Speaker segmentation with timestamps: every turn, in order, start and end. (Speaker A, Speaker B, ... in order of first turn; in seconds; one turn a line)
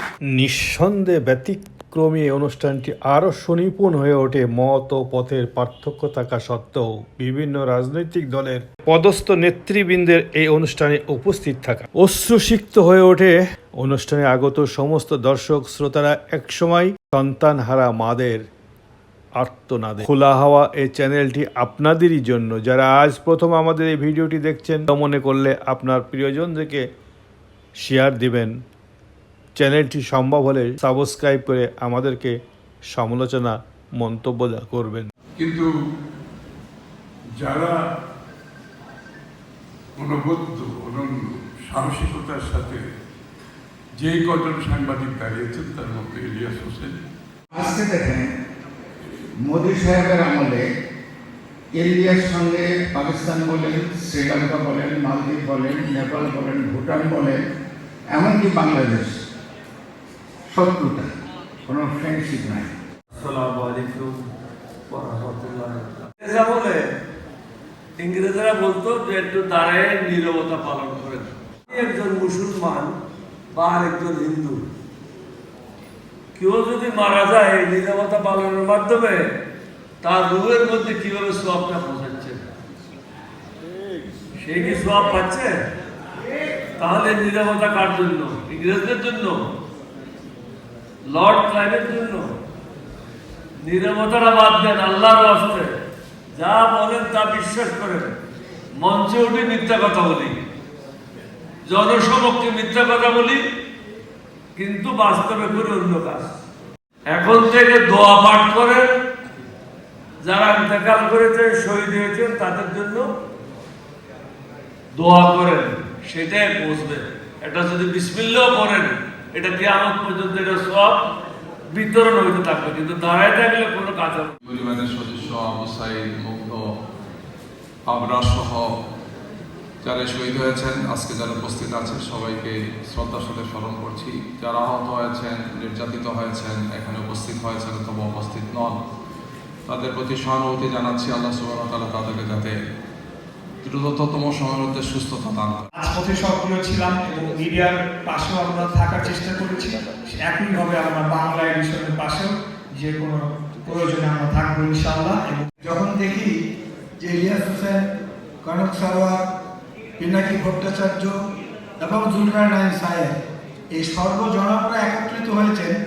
Speaker A: 0.3-18.4
Speaker A: 19.4-26.8
Speaker A: 27.8-28.5
Speaker A: 29.6-32.3
Speaker A: 32.9-35.1
Speaker B: 35.4-35.7
Speaker B: 37.4-37.8
Speaker B: 40.0-42.8
Speaker B: 44.0-46.9
Speaker C: 47.5-48.3
Speaker C: 49.4-50.6
Speaker C: 51.7-57.4
Speaker C: 58.1-59.2
Speaker C: 60.5-61.1
Speaker C: 61.7-62.7
Speaker D: 63.1-64.2
Speaker D: 64.9-66.8
Speaker D: 68.0-72.9
Speaker D: 73.5-74.6
Speaker D: 76.3-79.2
Speaker D: 80.0-82.4
Speaker D: 84.4-85.5
Speaker D: 86.8-89.4
Speaker D: 91.1-92.3
Speaker D: 93.6-95.8
Speaker D: 96.3-98.1
Speaker D: 98.8-100.3
Speaker D: 101.7-103.4
Speaker D: 104.5-106.3
Speaker D: 107.1-108.8
Speaker D: 110.2-113.1
Speaker D: 115.0-121.0
Speaker D: 121.7-124.3
Speaker E: 124.5-126.6
Speaker E: 127.8-128.7
Speaker E: 129.8-138.8
Speaker E: 139.7-142.5
Speaker E: 143.6-145.7
Speaker F: 145.7-155.5
Speaker G: 155.6-156.3
Speaker G: 157.0-157.8
Speaker G: 158.4-159.2
Speaker G: 160.0-161.1
Speaker G: 161.8-163.1
Speaker G: 163.7-165.7